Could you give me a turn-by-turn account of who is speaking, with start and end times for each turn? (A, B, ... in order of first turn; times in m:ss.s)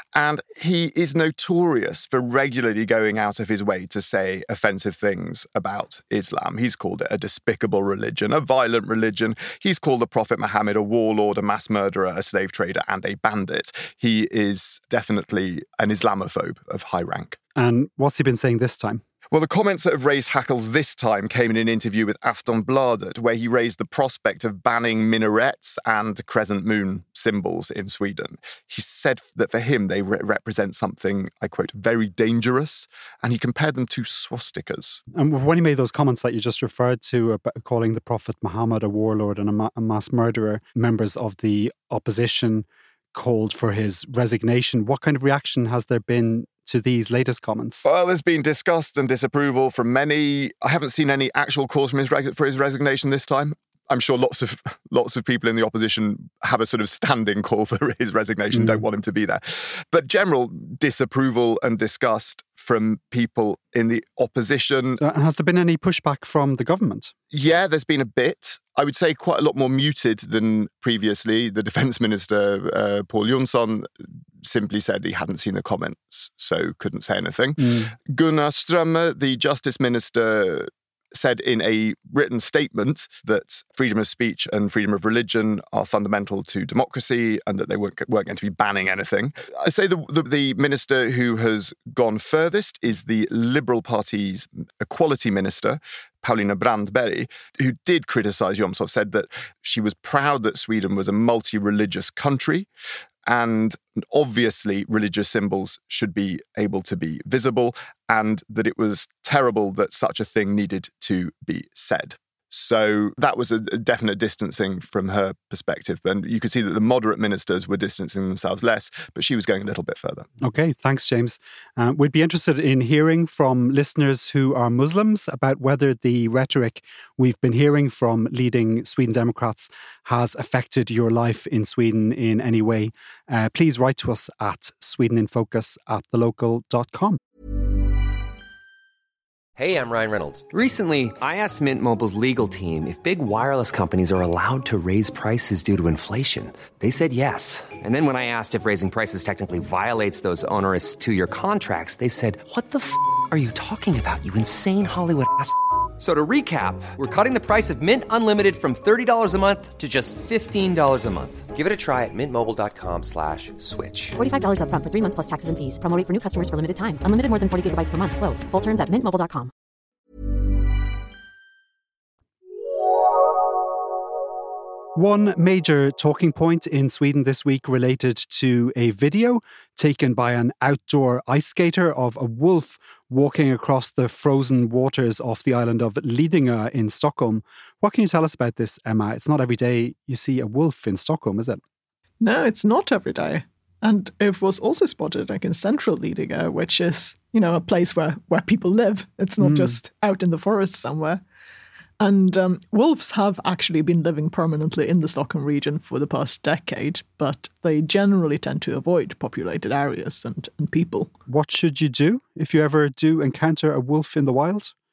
0:00.1-0:17.4 A
0:17.5-0:19.0 B
0:19.3-0:35.0 A
0:35.1-0:47.8 B
0:47.8-1:05.0 A
0:58.5-0:58.8 B
1:05.0-1:07.1 B
1:07.3-1:13.9 A
1:14.4-1:42.7 A
1:17.6-1:17.9 B
1:43.2-2:00.3 A
2:00.4-2:17.2 B
2:19.6-2:44.2 C
2:44.2-2:49.5 D
2:54.9-3:11.6 B
3:12.2-3:21.2 E
3:19.4-3:19.8 B
3:22.0-3:31.1 E
3:31.3-3:34.7 B